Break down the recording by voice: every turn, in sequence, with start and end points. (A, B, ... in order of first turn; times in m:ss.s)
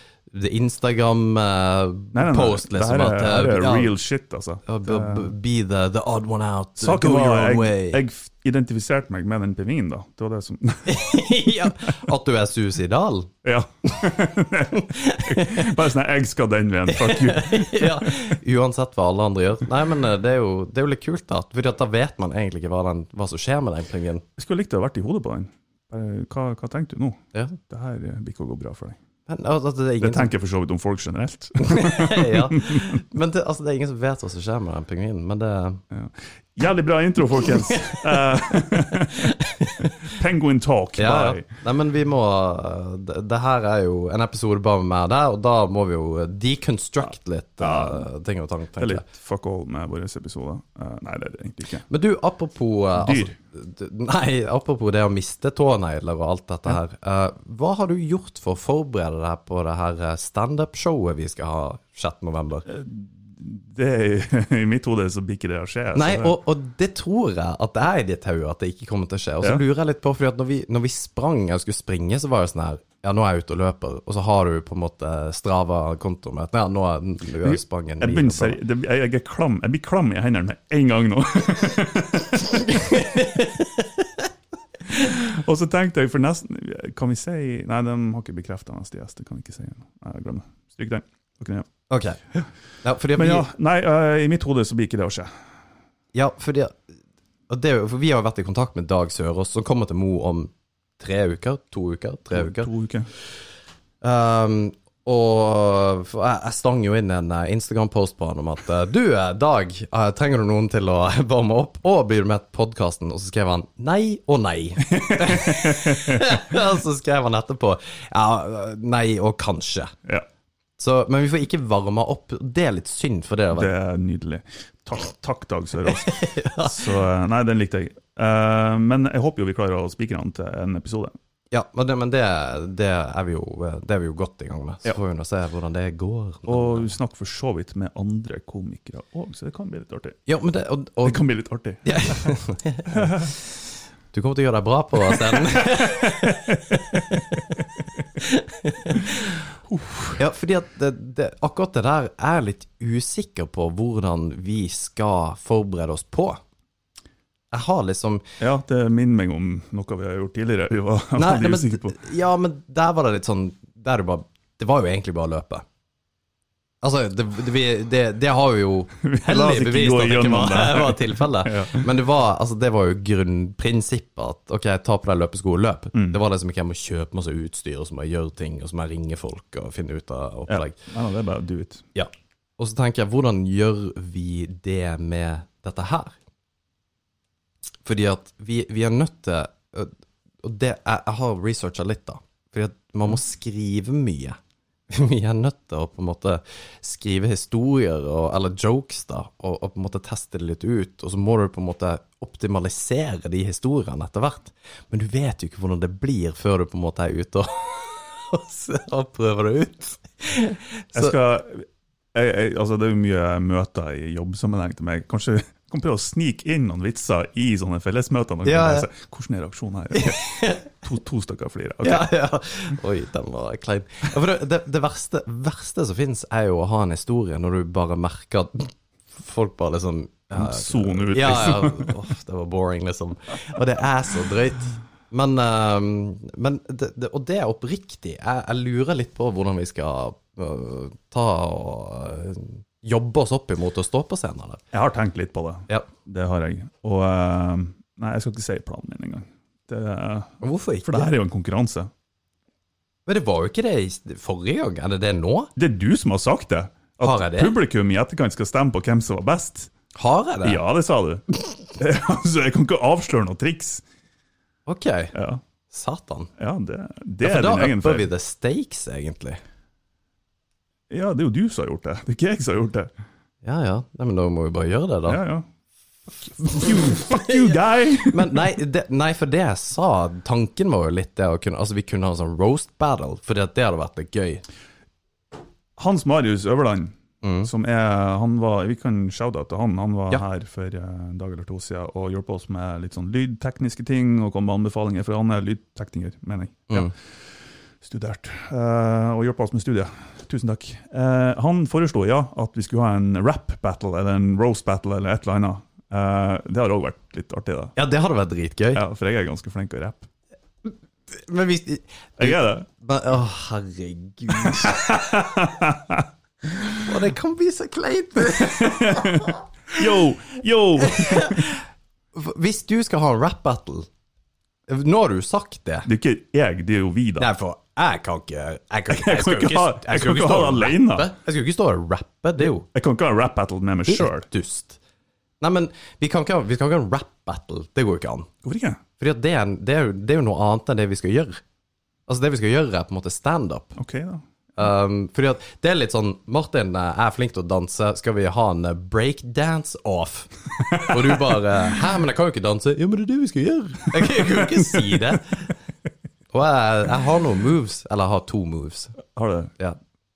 0:00.3-0:03.9 A
0:02.1-0:05.3 B
0:04.6-0:08.0 A
0:06.8-0:11.9 B
0:10.8-0:13.3 A
0:13.4-0:18.4 B
0:14.7-0:15.7 A
0:16.9-0:24.2 A
0:24.4-0:29.0 B
0:27.3-0:27.6 A
0:29.3-0:30.3 A
0:30.0-0:33.0 B
0:31.6-0:35.8 A
0:35.9-0:41.4 B
0:37.4-0:40.1 A
0:41.0-0:49.0 A
0:47.6-0:48.0 B
0:48.8-0:51.8 B
0:51.9-1:02.7 A
0:53.0-0:53.3 B
1:02.7-1:06.4 B
1:05.9-1:18.6 A
1:17.4-1:22.8 B
1:22.5-1:24.3 A
1:24.9-1:31.7 B
1:31.9-1:32.2 A
1:32.8-1:33.5 A
1:33.2-1:35.4 B
1:36.1-1:36.8 A
1:37.5-1:42.7 A
1:42.3-1:43.1 B
1:44.0-1:59.9 A
1:54.9-1:56.6 B
2:00.8-2:03.7 A
2:03.5-2:11.1 B
2:05.8-2:06.9 A
2:11.5-2:16.9 A
2:16.5-2:20.2 B
2:20.3-2:21.2 A
2:21.0-2:22.3 B
2:21.8-2:29.4 A
2:22.9-2:23.3 B
2:25.1-2:28.0 B
2:28.9-2:29.2 B
2:29.7-2:30.2 B
2:30.2-2:36.4 A
2:37.5-2:38.2 A
2:38.4-2:42.0 B
2:41.2-2:45.6 A
2:46.8-3:00.8 A
2:49.0-2:51.9 B
3:00.5-3:01.8 B
3:01.9-3:06.1 A
3:07.8-3:09.9 A
3:10.4-3:14.4 A
3:14.9-3:31.2 A
3:30.9-3:42.1 B
3:38.4-3:38.9 A
3:39.9-3:40.7 A
3:41.8-4:04.6 A
3:50.3-3:52.0 B
4:04.7-4:11.9 B
4:10.4-4:11.1 A
4:13.1-4:15.5 A
4:15.6-4:19.7 B
4:17.0-4:17.5 A
4:19.9-4:20.6 A
4:20.4-4:21.2 B
4:21.8-4:23.8 B
4:24.7-4:25.1 A
4:25.1-4:25.4 B
4:25.7-4:26.3 A
4:26.4-4:28.1 B
4:27.2-4:29.4 A
4:30.9-4:32.9 B
4:33.4-4:35.2 A
4:35.1-4:35.5 B
4:36.4-4:37.5 A
4:36.5-4:38.5 B
4:38.0-4:44.4 A
4:45.8-5:07.7 B
4:47.2-4:47.5 A
5:07.8-5:08.8 A
5:08.7-5:10.1 B
5:10.6-5:15.0 A
5:12.2-5:12.6 B
5:14.3-5:16.9 B
5:16.8-5:19.8 A
5:18.3-5:21.5 B
5:20.8-5:23.9 A
5:24.7-5:25.9 A
5:25.8-5:27.3 B
5:27.2-5:32.6 A
5:28.9-5:31.1 B
5:32.4-5:34.2 B
5:33.9-5:34.8 A
5:35.4-5:38.3 A
5:38.4-5:38.8 B
5:39.0-5:41.4 A
5:42.1-5:43.8 A
5:43.8-5:44.2 B
5:44.6-5:55.5 A
5:50.6-5:51.4 B
5:54.0-5:55.2 B
5:56.3-5:59.0 A
5:59.1-5:59.5 B